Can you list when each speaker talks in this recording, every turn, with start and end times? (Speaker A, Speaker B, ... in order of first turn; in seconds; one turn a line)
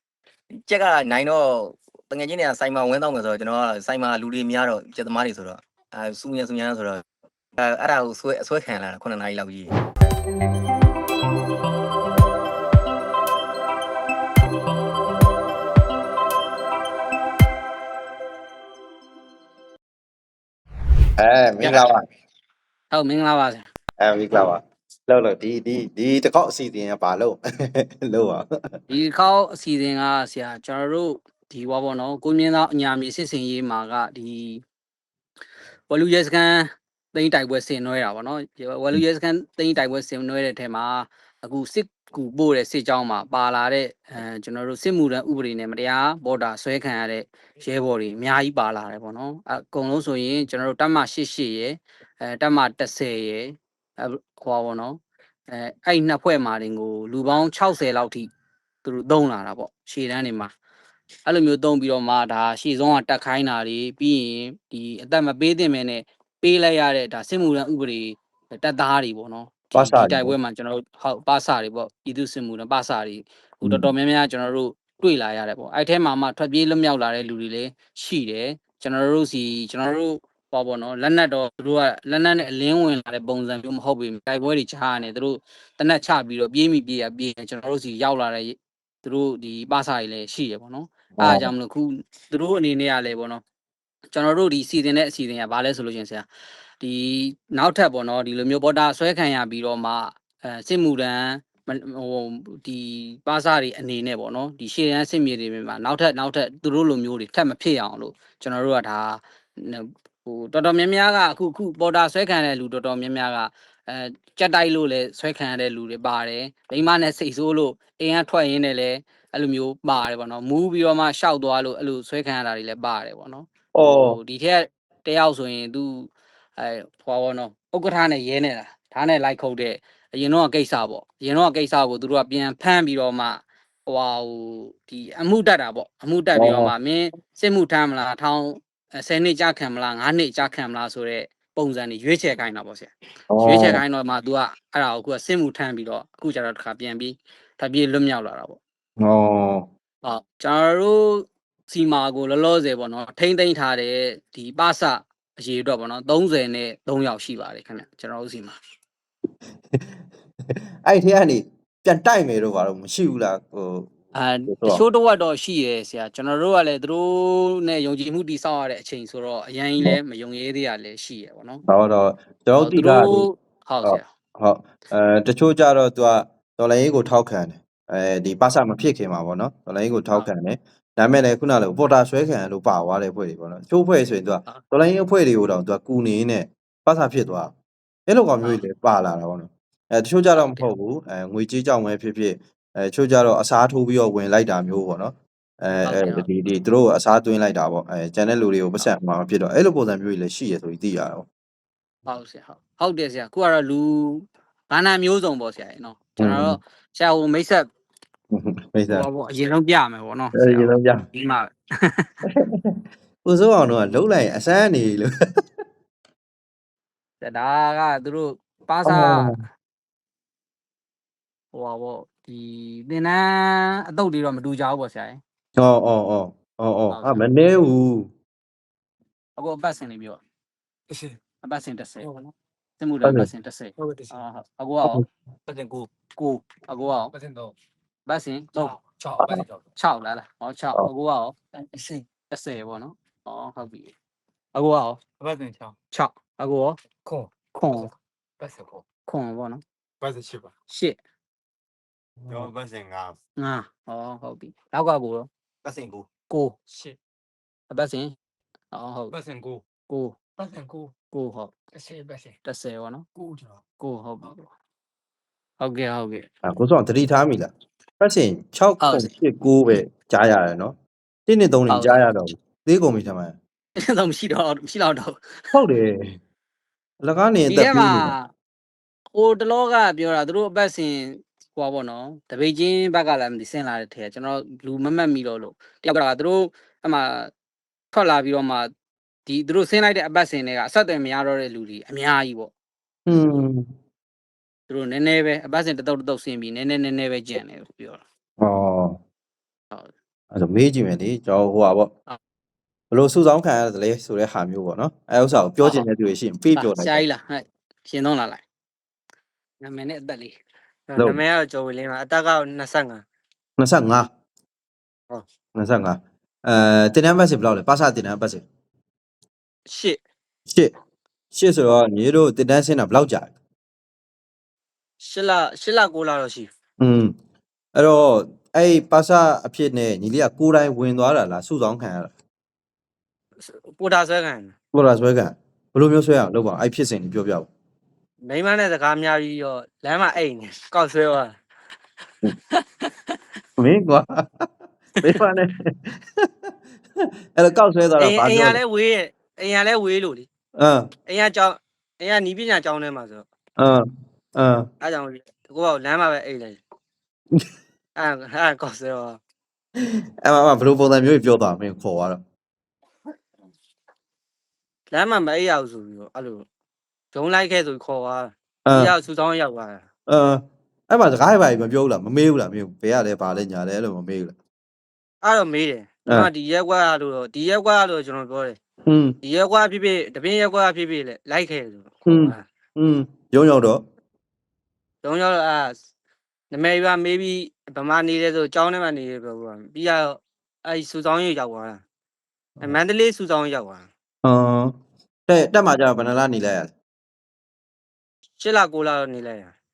Speaker A: 0.5-7.0
Speaker A: 7.6-9.7
Speaker B: 21.2-22.1
Speaker C: 22.9-23.6
Speaker B: 24.0-28.5
Speaker C: 28.9-34.6
Speaker C: 35.9-55.0
Speaker C: 55.5-58.3
Speaker C: 58.8-60.5
Speaker C: 61.2-93.4
Speaker B: 69.8-70.3
Speaker B: 73.6-73.9
Speaker B: 91.2-91.5
Speaker C: 94.1-96.2
Speaker C: 96.8-148.6
Speaker B: 123.7-124.2
Speaker B: 136.3-136.7
Speaker B: 143.3-143.8
Speaker B: 149.0-149.7
Speaker C: 150.0-158.6
Speaker B: 160.5-163.9
Speaker C: 164.2-171.6
Speaker B: 164.5-164.8
Speaker B: 171.7-173.3
Speaker C: 172.6-174.1
Speaker B: 173.8-187.5
Speaker B: 188.1-201.2
Speaker C: 190.4-190.7
Speaker C: 195.8-196.3
Speaker C: 202.1-207.7
Speaker B: 206.2-206.6
Speaker B: 208.3-209.1
Speaker C: 208.9-212.2
Speaker B: 210.3-211.0
Speaker B: 212.3-215.1
Speaker C: 217.2-219.3
Speaker B: 218.8-219.4
Speaker C: 221.5-225.2
Speaker B: 225.6-228.1
Speaker C: 226.9-227.2
Speaker C: 229.4-230.2
Speaker D: 230.9-231.2
Speaker C: 231.4-232.1
Speaker D: 232.0-232.3
Speaker C: 232.8-235.0
Speaker B: 233.0-233.3
Speaker D: 233.8-234.2
Speaker D: 235.4-235.9
Speaker C: 236.2-237.1
Speaker D: 237.1-237.5
Speaker C: 238.1-238.8
Speaker D: 238.5-239.7
Speaker B: 239.2-239.4
Speaker C: 239.8-241.3
Speaker D: 241.5-242.1
Speaker C: 242.3-243.9
Speaker C: 244.5-245.0
Speaker D: 245.2-245.8
Speaker C: 245.9-246.8
Speaker D: 247.0-248.8
Speaker C: 247.5-247.9
Speaker C: 249.1-249.6
Speaker D: 250.0-250.5
Speaker C: 250.7-251.0
Speaker D: 252.2-253.2
Speaker C: 253.4-255.3
Speaker D: 255.6-256.1
Speaker C: 256.3-256.6
Speaker D: 256.7-257.0
Speaker C: 257.7-258.1
Speaker C: 258.7-259.1
Speaker D: 259.1-259.6
Speaker C: 259.9-260.1
Speaker D: 260.4-260.9
Speaker C: 261.1-261.5
Speaker D: 261.7-262.4
Speaker C: 262.4-263.1
Speaker D: 263.1-263.6
Speaker C: 263.8-264.5
Speaker C: 265.6-266.3
Speaker B: 266.4-270.8
Speaker C: 268.8-269.1
Speaker B: 271.3-273.4
Speaker C: 271.7-272.1
Speaker C: 273.8-275.4
Speaker B: 275.5-276.1
Speaker B: 277.0-278.1
Speaker C: 277.5-278.3
Speaker C: 279.1-287.3
Speaker C: 287.9-288.7
Speaker C: 289.3-292.5
Speaker B: 293.1-293.6
Speaker C: 294.7-298.0
Speaker B: 298.4-299.0
Speaker B: 300.3-301.9
Speaker B: 302.9-307.0
Speaker C: 305.6-305.9
Speaker C: 306.5-308.4
Speaker C: 309.6-310.4
Speaker E: 310.9-313.0
Speaker B: 313.6-314.1
Speaker B: 315.6-318.4
Speaker E: 319.6-320.0
Speaker B: 320.5-320.7
Speaker B: 321.3-323.3
Speaker E: 325.0-326.5
Speaker B: 326.8-327.1
Speaker B: 327.8-332.1
Speaker E: 333.4-334.5
Speaker B: 334.7-337.5
Speaker E: 338.2-341.4
Speaker B: 343.6-344.4
Speaker B: 345.0-348.6
Speaker E: 348.0-350.3
Speaker B: 350.6-350.9
Speaker E: 351.1-353.2
Speaker B: 353.6-354.7
Speaker E: 354.8-356.6
Speaker E: 357.9-359.2
Speaker B: 359.8-362.2
Speaker E: 364.9-366.4
Speaker E: 367.1-369.9
Speaker B: 368.6-368.9
Speaker B: 370.1-374.3
Speaker E: 375.2-378.6
Speaker B: 378.9-379.2
Speaker E: 379.2-382.4
Speaker B: 382.1-383.8
Speaker E: 385.0-385.8
Speaker E: 386.5-391.8
Speaker E: 392.6-393.9
Speaker B: 394.2-394.8
Speaker B: 395.3-396.7
Speaker E: 398.4-399.5